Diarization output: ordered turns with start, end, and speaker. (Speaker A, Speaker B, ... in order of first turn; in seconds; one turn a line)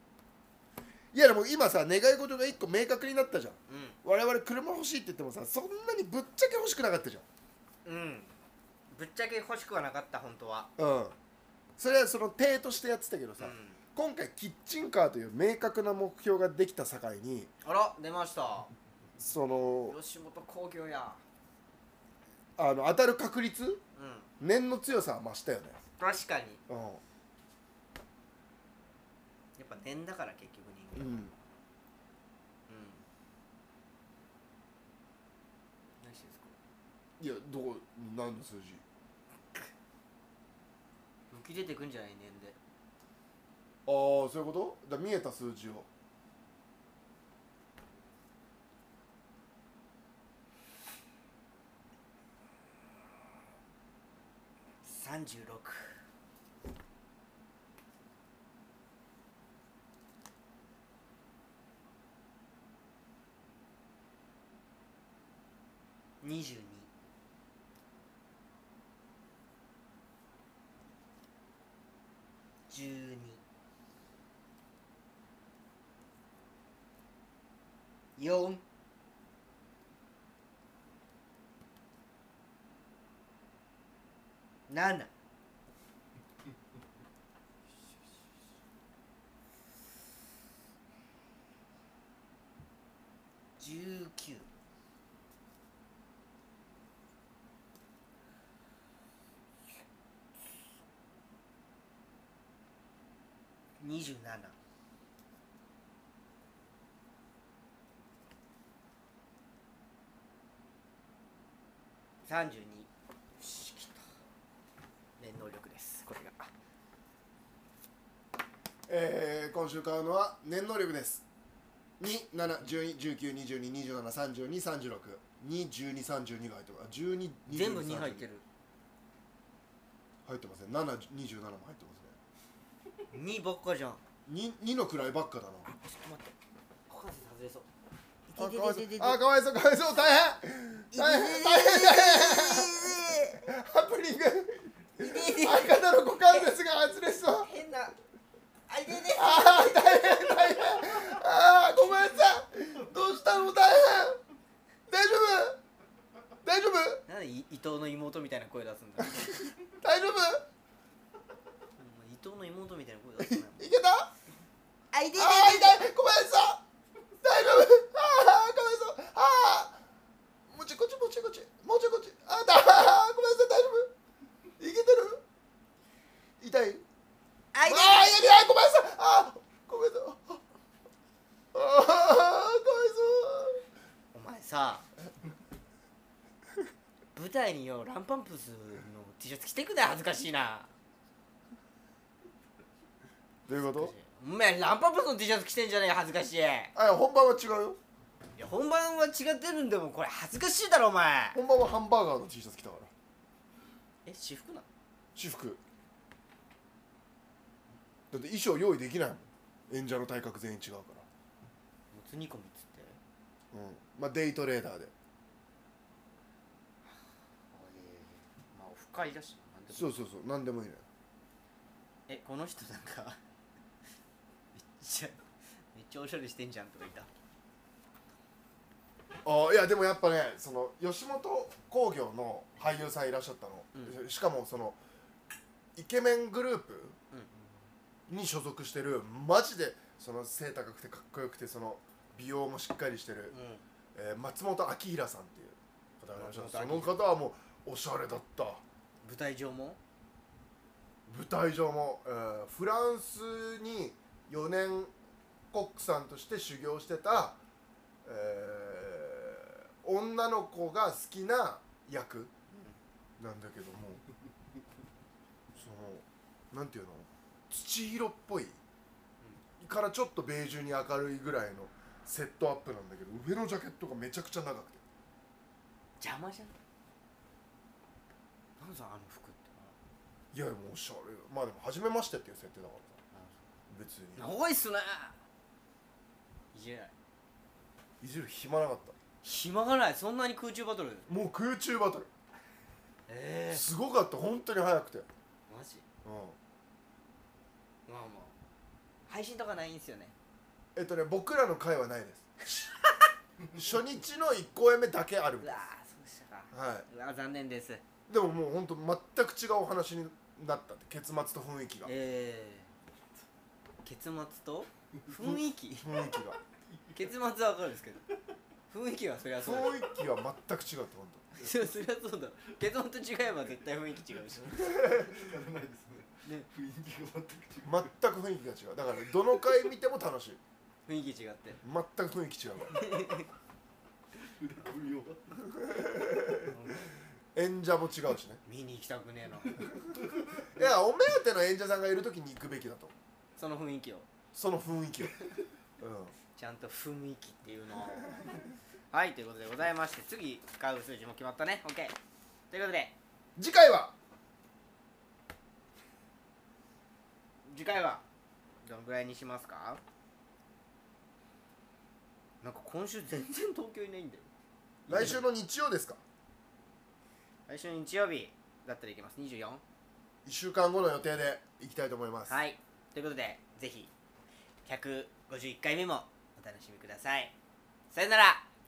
Speaker A: 1.1-7.2
Speaker B: 3.7-4.0
Speaker B: 7.8-8.3
Speaker B: 8.9-10.7
Speaker A: 10.8-11.2
Speaker A: 11.8-17.5
Speaker B: 13.4-13.8
Speaker B: 17.6-18.7
Speaker A: 19.2-20.0
Speaker B: 19.9-21.2
Speaker A: 22.6-23.8
Speaker B: 24.0-24.3
Speaker A: 24.4-25.8
Speaker B: 26.0-26.6
Speaker A: 26.7-27.0
Speaker B: 29.6-31.2
Speaker A: 30.9-31.3
Speaker B: 32.7-33.0
Speaker B: 36.0-36.5
Speaker A: 37.2-38.8
Speaker B: 41.3-42.6
Speaker A: 43.9-45.9
Speaker B: 54.8-56.0
Speaker B: 66.2-66.9
Speaker B: 72.7-73.4
Speaker B: 78.2-78.6
Speaker B: 84.7-85.1
Speaker B: 93.6-94.5
Speaker B: 103.8-104.6
Speaker B: 112.2-114.0
Speaker B: 115.2-116.5
Speaker A: 118.9-121.2
Speaker A: 122.0-128.3
Speaker B: 127.5-128.4
Speaker A: 130.2-132.2
Speaker B: 133.1-134.0
Speaker A: 134.3-135.7
Speaker B: 135.7-136.3
Speaker B: 136.9-137.7
Speaker B: 138.3-139.2
Speaker A: 138.3-147.5
Speaker B: 140.9-143.4
Speaker B: 145.0-146.5
Speaker B: 147.4-148.0
Speaker B: 148.7-151.2
Speaker A: 149.1-154.2
Speaker A: 154.9-155.6
Speaker A: 156.4-157.0
Speaker B: 157.1-159.3
Speaker A: 159.1-160.4
Speaker B: 161.8-163.7
Speaker A: 163.2-164.1
Speaker B: 164.9-165.8
Speaker A: 165.1-166.6
Speaker A: 167.2-169.8
Speaker A: 170.5-173.9
Speaker A: 174.6-175.2
Speaker A: 176.4-176.8
Speaker B: 177.5-178.2
Speaker A: 177.7-180.4
Speaker A: 181.5-183.6
Speaker B: 184.1-184.9
Speaker B: 187.2-190.7
Speaker A: 193.5-193.9
Speaker B: 193.6-196.7
Speaker A: 196.8-197.8
Speaker B: 198.4-201.4
Speaker A: 201.3-202.9
Speaker B: 204.1-204.7
Speaker A: 205.2-205.6
Speaker A: 208.1-211.1
Speaker B: 211.9-213.0
Speaker A: 213.5-214.9
Speaker B: 217.5-220.0
Speaker A: 219.7-220.8
Speaker B: 222.1-223.2
Speaker B: 224.6-225.2
Speaker B: 225.7-227.1
Speaker A: 229.2-234.8
Speaker B: 233.7-234.0
Speaker A: 235.8-237.0
Speaker B: 237.1-237.4
Speaker A: 238.1-243.3
Speaker B: 243.3-243.6
Speaker A: 243.9-248.6
Speaker B: 246.1-247.0
Speaker B: 249.0-249.8
Speaker A: 251.1-254.9
Speaker A: 255.5-257.4
Speaker A: 258.1-262.3
Speaker B: 262.5-262.8
Speaker A: 263.2-264.0
Speaker A: 265.6-268.6
Speaker A: 269.6-274.8
Speaker B: 276.0-276.6
Speaker B: 278.6-279.8
Speaker A: 280.3-283.0
Speaker B: 283.1-283.4
Speaker A: 283.7-284.3
Speaker B: 284.2-285.2
Speaker B: 286.5-286.9
Speaker A: 288.0-289.0
Speaker B: 289.2-291.1
Speaker A: 291.1-292.1
Speaker B: 293.1-293.7
Speaker A: 293.5-295.1
Speaker B: 295.5-295.9
Speaker A: 296.1-296.4
Speaker B: 297.9-298.3
Speaker B: 299.1-300.1
Speaker A: 300.8-302.6
Speaker A: 303.6-305.6
Speaker B: 305.4-307.8
Speaker A: 306.5-306.9
Speaker A: 308.1-311.9
Speaker B: 311.8-312.7
Speaker B: 313.8-316.0
Speaker A: 315.1-316.4
Speaker B: 316.9-318.0
Speaker B: 318.7-319.8
Speaker A: 319.4-321.2
Speaker B: 321.3-324.8
Speaker C: 324.6-327.9
Speaker A: 327.6-330.4
Speaker C: 329.3-329.6
Speaker B: 330.9-331.6
Speaker A: 331.6-332.9
Speaker B: 332.7-333.3
Speaker C: 334.1-335.6
Speaker A: 335.6-336.5
Speaker B: 336.4-336.9
Speaker A: 337.4-338.4
Speaker B: 338.4-339.7
Speaker A: 340.5-342.9
Speaker B: 343.4-344.1
Speaker A: 344.3-345.2
Speaker A: 345.8-346.1
Speaker B: 346.4-351.9
Speaker B: 352.5-352.9
Speaker A: 353.4-353.9
Speaker B: 357.5-358.0
Speaker B: 358.6-359.8
Speaker B: 362.4-364.3
Speaker A: 364.9-366.0
Speaker B: 364.9-365.2
Speaker B: 367.5-369.6
Speaker A: 370.2-372.4
Speaker B: 372.3-373.9
Speaker B: 374.6-377.3
Speaker B: 377.9-378.4